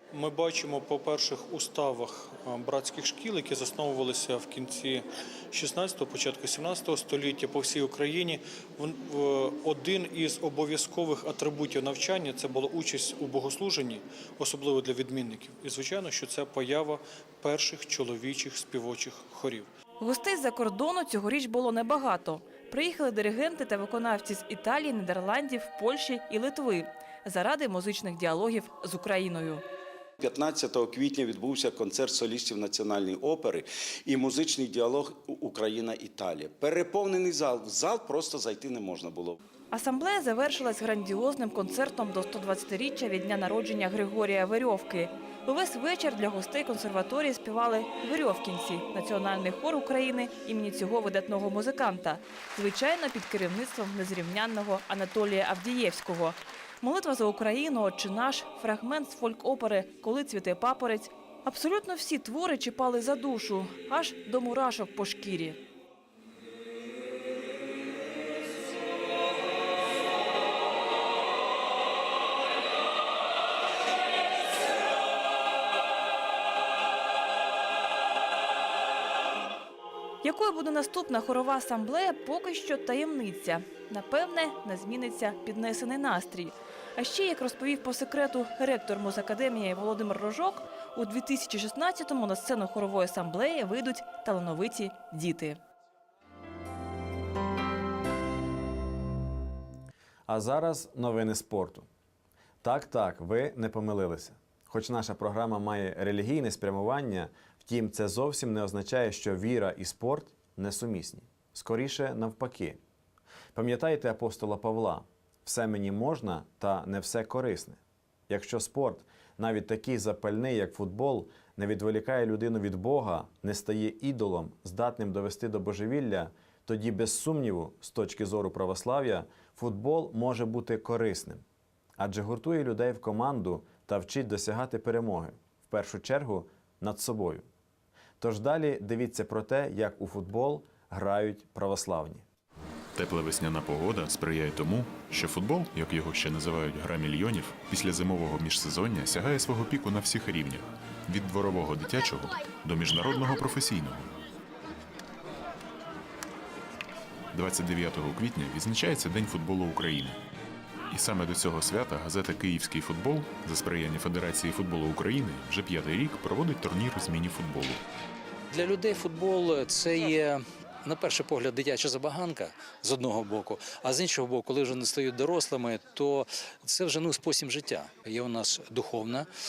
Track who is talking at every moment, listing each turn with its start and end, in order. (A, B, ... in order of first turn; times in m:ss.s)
0:00.1-0:19.7 A
0:20.0-0:29.6 B
0:30.2-0:39.4 C
0:39.7-1:05.6 B
1:20.2-1:35.6 B
1:40.3-1:41.9 D
1:42.6-1:52.8 D
1:53.6-1:57.8 D
1:58.3-2:11.4 D
2:12.0-2:17.5 D
2:18.2-2:22.2 D
2:23.0-2:34.1 E
2:37.3-2:40.2 E
2:40.9-2:47.8 E
2:48.6-2:50.2 F
2:50.9-2:56.0 F
2:56.7-2:59.2 F